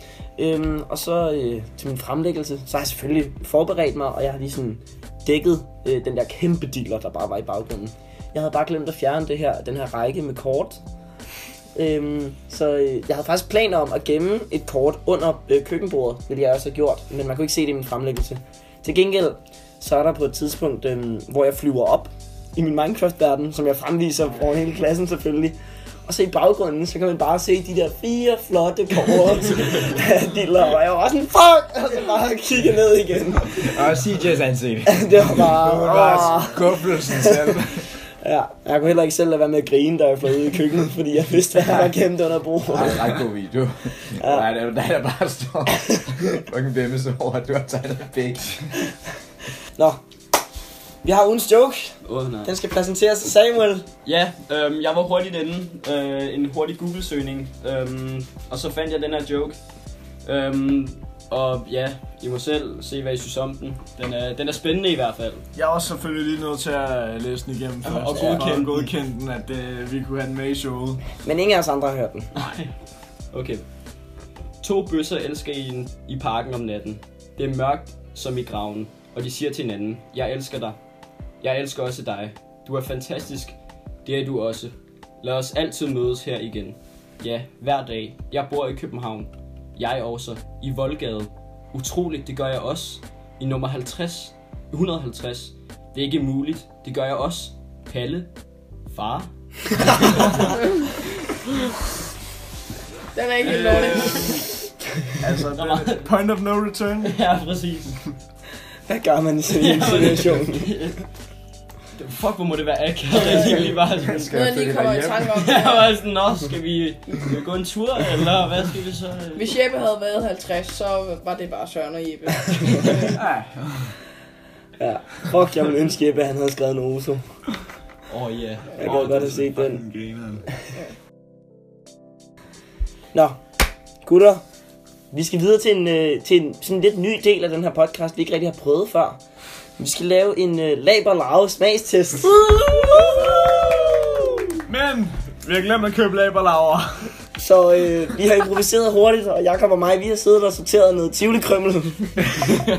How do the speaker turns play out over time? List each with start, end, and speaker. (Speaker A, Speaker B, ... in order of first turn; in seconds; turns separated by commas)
Speaker A: 0.4-10.8, Speaker A: 11.7-25.5, Speaker A: 26.1-33.8, Speaker B: 33.5-37.8, Speaker A: 34.9-43.2, Speaker B: 42.7-48.8, Speaker A: 44.2-44.5, Speaker A: 49.8-50.0, Speaker A: 51.0-53.9, Speaker C: 52.0-52.5, Speaker C: 54.0-59.6, Speaker C: 60.2-65.4, Speaker D: 65.5-71.0, Speaker C: 67.8-68.9, Speaker A: 68.1-68.4, Speaker A: 71.2-72.3, Speaker C: 72.3-72.7, Speaker C: 73.3-73.6, Speaker C: 74.6-80.8, Speaker C: 81.4-98.3, Speaker C: 98.9-100.5, Speaker E: 103.1-104.4, Speaker C: 103.4-104.5, Speaker D: 105.2-107.2, Speaker C: 105.5-106.1, Speaker C: 107.0-108.1, Speaker A: 108.8-110.7, Speaker C: 109.5-111.0, Speaker C: 111.9-114.5, Speaker E: 113.1-113.6, Speaker B: 114.1-115.2, Speaker E: 114.3-115.9, Speaker C: 115.3-119.5, Speaker E: 119.3-123.2, Speaker D: 123.0-123.9, Speaker A: 124.8-127.2, Speaker C: 128.1-129.4, Speaker A: 128.8-129.8, Speaker D: 128.8-130.4, Speaker A: 133.1-133.4, Speaker A: 134.0-134.4, Speaker A: 135.1-139.2, Speaker A: 139.8-144.4, Speaker D: 143.1-143.4, Speaker D: 144.7-147.1, Speaker A: 147.4-152.5